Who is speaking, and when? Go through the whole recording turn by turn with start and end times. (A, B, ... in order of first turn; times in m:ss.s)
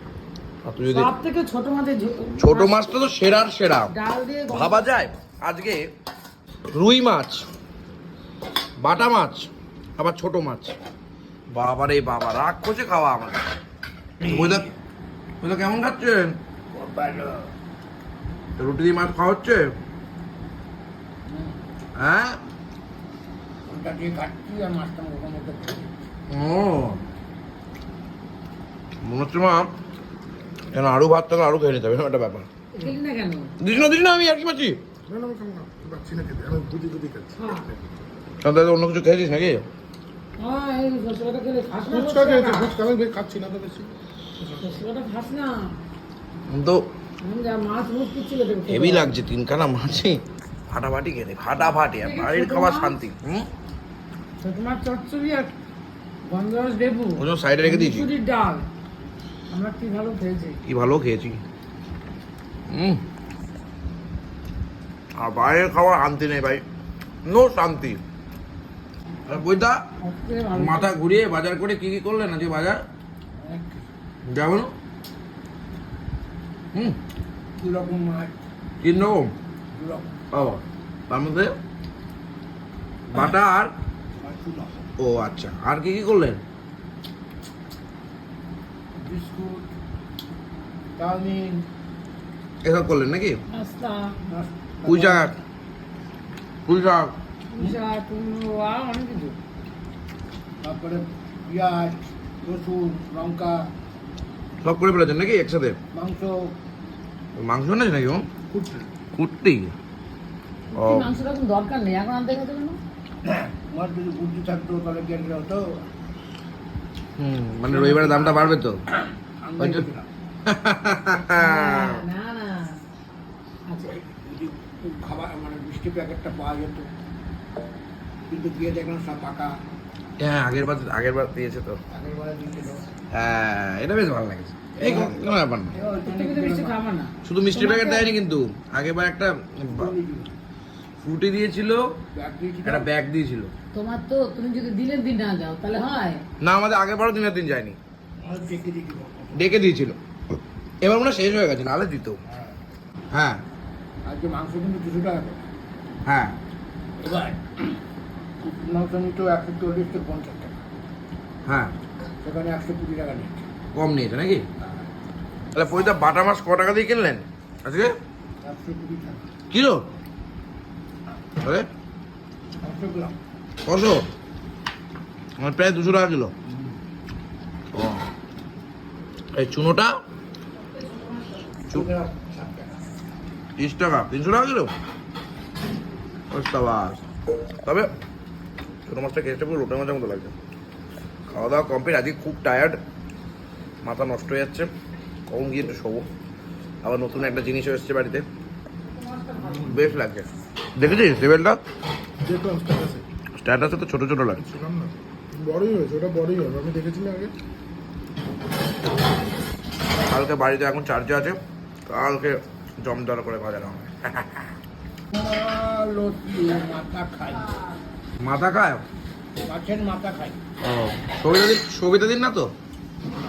0:00.6-0:01.1 A
0:00.9-0:02.9 B
0:02.4-0:03.9 A
0:03.9-0:04.9 B
0:04.5-0:05.8 A
0:06.7-0:07.5 A
0:08.8-0:10.8 A
0:11.5-0:13.5 A
0:14.2-0:14.7 C
0:14.2-0:14.7 A
0:15.4-0:16.4 A
0:16.7-0:17.5 C
0:18.6-0:19.7 A
0:21.2-0:21.6 C
0:22.0-0:22.4 A
0:23.6-0:26.1 C
0:26.3-0:27.0 A
0:29.0-0:29.7 A
0:30.7-0:32.5 A
0:32.7-0:33.5 B
0:33.6-0:34.8 A
0:35.1-0:37.3 D
0:37.4-0:37.7 B
0:38.4-0:39.6 A
0:40.4-0:42.8 B
0:41.9-0:43.9 D
0:44.4-0:45.8 B
0:46.5-0:46.9 A
0:47.2-0:49.1 B
0:48.6-0:53.5 A
0:51.8-0:53.0 B
0:54.4-0:55.5 B
0:56.2-0:58.7 B
0:57.2-0:58.1 A
0:59.5-1:00.6 B
1:00.6-1:01.4 A
1:02.7-1:03.0 A
1:05.2-1:06.6 A
1:07.2-1:08.0 A
1:09.3-1:09.8 A
1:10.0-1:10.9 B
1:10.5-1:12.8 A
1:13.4-1:13.9 C
1:14.2-1:14.7 A
1:17.6-1:18.4 C
1:18.8-1:19.3 A
1:19.7-1:20.2 C
1:20.3-1:21.6 A
1:23.1-1:23.7 A
1:24.2-1:24.8 C
1:25.0-1:26.4 A
1:28.9-1:29.7 C
1:31.0-1:31.6 C
1:32.6-1:33.4 A
1:33.5-1:34.1 B
1:34.3-1:35.3 C
1:34.9-1:35.4 A
1:36.6-1:37.1 A
1:37.5-1:39.4 B
1:40.6-1:43.6 C
1:44.6-1:45.8 A
1:45.9-1:46.5 C
1:47.4-1:48.3 A
1:48.5-1:48.8 C
1:49.1-1:49.8 A
1:50.7-1:52.8 B
1:50.8-1:51.2 A
1:53.2-1:55.6 C
1:57.2-1:58.8 A
1:57.6-2:00.1 C
1:59.6-1:59.9 A
2:00.4-2:02.0 A
2:01.3-2:02.8 B
2:03.7-2:03.9 B
2:03.8-2:06.9 C
2:08.3-2:09.5 C
2:10.2-2:11.8 A
2:11.9-2:12.9 C
2:13.1-2:15.8 A
2:14.8-2:16.8 C
2:16.0-2:18.1 B
2:17.2-2:19.9 A
2:19.7-2:20.4 C
2:21.0-2:21.9 A
2:22.1-2:22.9 C
2:22.6-2:23.5 A
2:23.7-2:26.2 B
2:26.4-2:27.8 A
2:28.2-2:29.5 C
2:29.4-2:30.0 A
2:30.8-2:32.2 A
2:33.1-2:33.4 A
2:34.0-2:35.5 C
2:36.1-2:36.3 A
2:37.0-2:37.8 C
2:38.4-2:40.6 C
2:41.4-2:41.7 A
2:42.2-2:43.5 C
2:43.7-2:44.4 A
2:45.5-2:47.9 A
2:48.4-2:49.2 C
2:49.5-2:49.8 A
2:51.4-2:51.7 A
2:52.6-2:53.2 C
2:53.6-2:54.0 A
2:55.4-2:56.3 A
2:57.7-2:58.1 A
2:59.3-2:59.9 A
3:01.7-3:02.8 C
3:03.6-3:04.7 A
3:06.3-3:07.0 A
3:08.9-3:10.3 A
3:11.3-3:12.8 A
3:13.8-3:14.7 A
3:15.3-3:16.1 A
3:16.8-3:18.2 A
3:18.9-3:19.8 B
3:19.5-3:21.6 A
3:22.2-3:23.0 D
3:23.4-3:24.5 A
3:24.4-3:27.3 D
3:30.1-3:34.5 A
3:35.1-3:37.5 C
3:38.2-3:38.8 A
3:39.4-3:40.4 C
3:40.6-3:42.5 A